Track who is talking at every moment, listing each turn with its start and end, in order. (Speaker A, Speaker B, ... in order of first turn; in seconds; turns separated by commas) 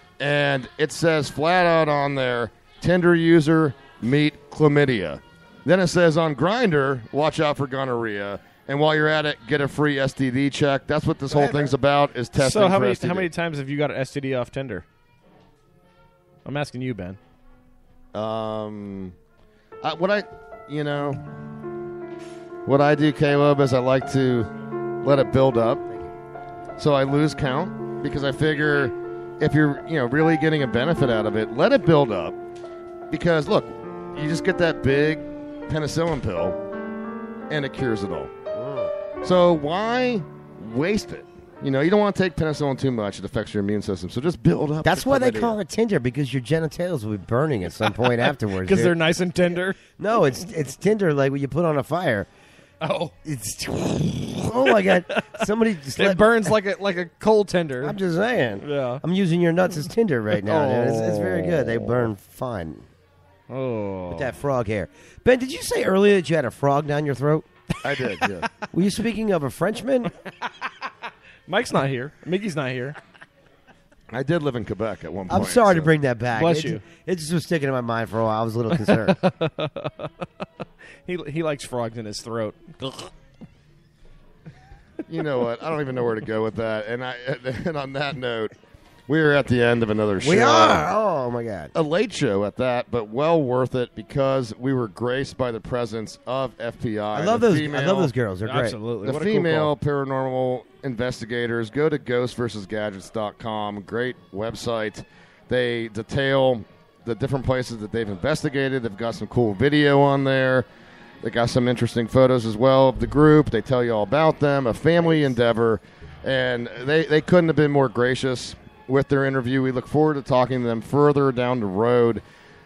Speaker A: 0.2-13.3, Speaker B: 11.3-11.7, Speaker C: 12.3-14.8, Speaker C: 16.4-17.2, Speaker A: 18.1-19.1, Speaker A: 19.8-21.2, Speaker A: 22.6-24.5, Speaker A: 25.0-25.9, Speaker A: 26.8-32.4, Speaker A: 33.1-36.6, Speaker A: 37.5-38.3, Speaker B: 38.5-38.9, Speaker A: 39.2-45.6, Speaker B: 44.8-48.9, Speaker C: 48.0-49.8, Speaker B: 50.0-52.3, Speaker C: 52.8-53.1, Speaker B: 53.2-56.5, Speaker C: 54.8-55.5, Speaker C: 56.0-58.0, Speaker B: 57.8-62.9, Speaker C: 58.6-59.0, Speaker C: 60.4-62.0, Speaker C: 63.5-64.3, Speaker B: 64.1-67.5, Speaker A: 67.8-68.5, Speaker B: 68.7-70.1, Speaker C: 71.5-73.0, Speaker A: 74.1-75.9, Speaker B: 75.3-79.2, Speaker C: 76.3-76.8, Speaker C: 78.8-80.2, Speaker C: 81.0-83.1, Speaker A: 85.1-88.5, Speaker A: 89.1-90.9, Speaker B: 90.2-91.7, Speaker A: 91.7-98.1, Speaker B: 97.1-98.8, Speaker C: 98.4-99.7, Speaker A: 99.0-110.7, Speaker A: 111.2-122.2